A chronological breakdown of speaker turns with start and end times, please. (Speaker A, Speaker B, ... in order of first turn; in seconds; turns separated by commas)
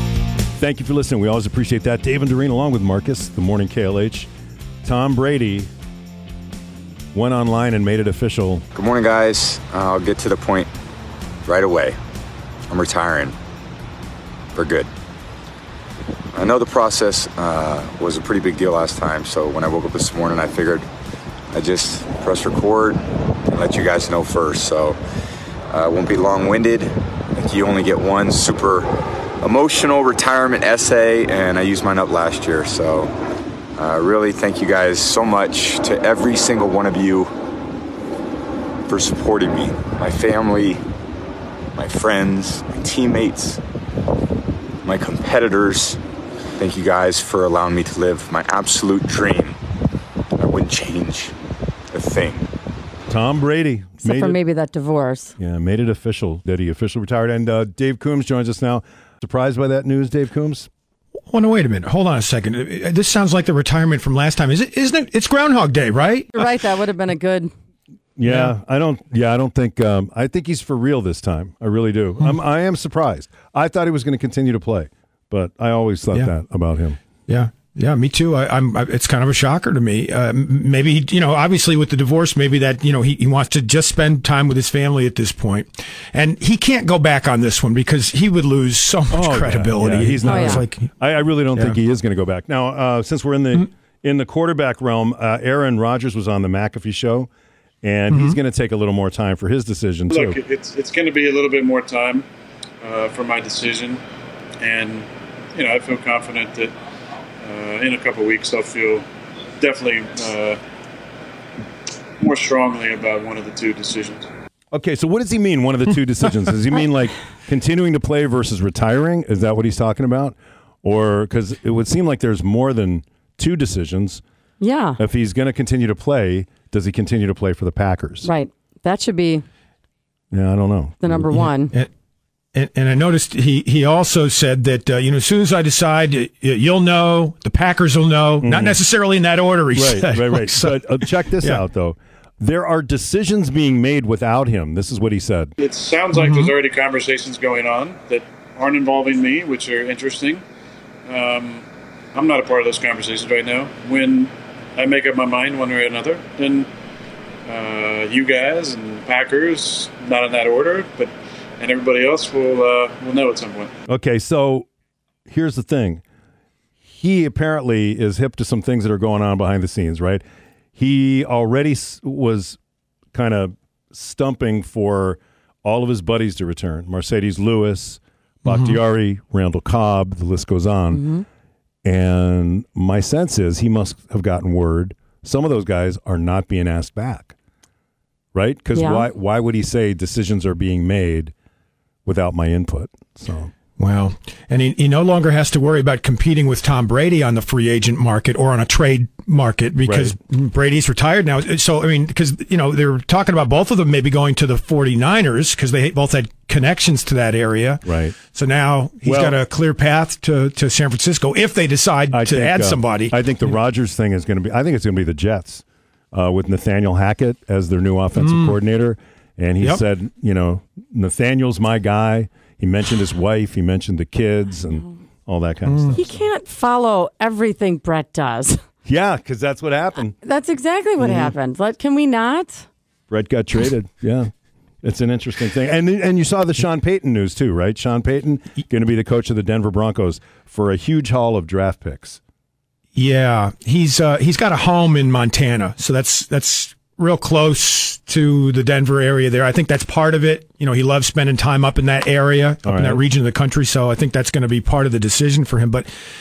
Speaker A: 0.6-4.3, Speaker A: 4.8-5.7, Speaker A: 7.1-8.7, Speaker B: 8.7-10.7, Speaker B: 11.5-12.0, Speaker B: 12.7-13.4, Speaker B: 14.6-14.9, Speaker B: 16.3-20.9, Speaker B: 21.5-25.0, Speaker B: 25.7-28.9, Speaker B: 29.4-33.1, Speaker B: 33.8-37.3, Speaker B: 38.9-40.8, Speaker B: 41.8-43.6, Speaker B: 44.8-46.0, Speaker B: 46.6-49.5, Speaker B: 50.4-51.3, Speaker B: 51.9-52.5, Speaker A: 53.1-54.4, Speaker C: 54.0-55.4, Speaker A: 55.4-60.7, Speaker D: 61.2-66.5, Speaker C: 66.3-67.5, Speaker A: 68.2-77.0, Speaker D: 68.2-68.5, Speaker D: 77.3-90.9, Speaker A: 89.1-97.3, Speaker C: 90.2-90.7, Speaker A: 97.8-100.4, Speaker D: 98.1-98.4, Speaker E: 100.1-102.3, Speaker E: 102.8-104.0, Speaker E: 104.6-106.7, Speaker E: 107.4-109.0, Speaker E: 109.6-110.6, Speaker E: 112.2-114.3, Speaker A: 114.7-124.2, Speaker C: 124.6-125.0, Speaker A: 125.0-128.3, Speaker C: 128.2-129.4, Speaker A: 130.3-131.3, Speaker C: 131.0-131.8, Speaker D: 131.3-131.9, Speaker D: 132.5-141.6, Speaker A: 138.4-138.8, Speaker A: 139.8-145.5, Speaker E: 145.6-150.4, Speaker D: 146.2-146.5, Speaker E: 151.1-156.7, Speaker E: 157.5-163.7, Speaker A: 163.9-164.7, Speaker A: 165.3-166.0, Speaker A: 166.9-170.2, Speaker A: 170.8-172.6, Speaker A: 173.1-181.1, Speaker D: 178.5-178.8, Speaker C: 180.9-181.2, Speaker A: 181.8-187.3, Speaker A: 188.3-191.3, Speaker C: 188.8-189.1, Speaker A: 192.1-193.5, Speaker D: 193.8-213.2, Speaker A: 199.9-200.2, Speaker A: 207.8-208.2, Speaker A: 209.0-209.4, Speaker A: 212.1-226.2, Speaker D: 218.2-218.6, Speaker D: 225.7-225.9, Speaker C: 225.9-228.6, Speaker A: 228.8-230.2, Speaker C: 230.2-232.7, Speaker A: 231.0-231.3, Speaker A: 233.1-234.3, Speaker A: 234.8-242.2, Speaker D: 242.9-255.9, Speaker A: 252.6-253.0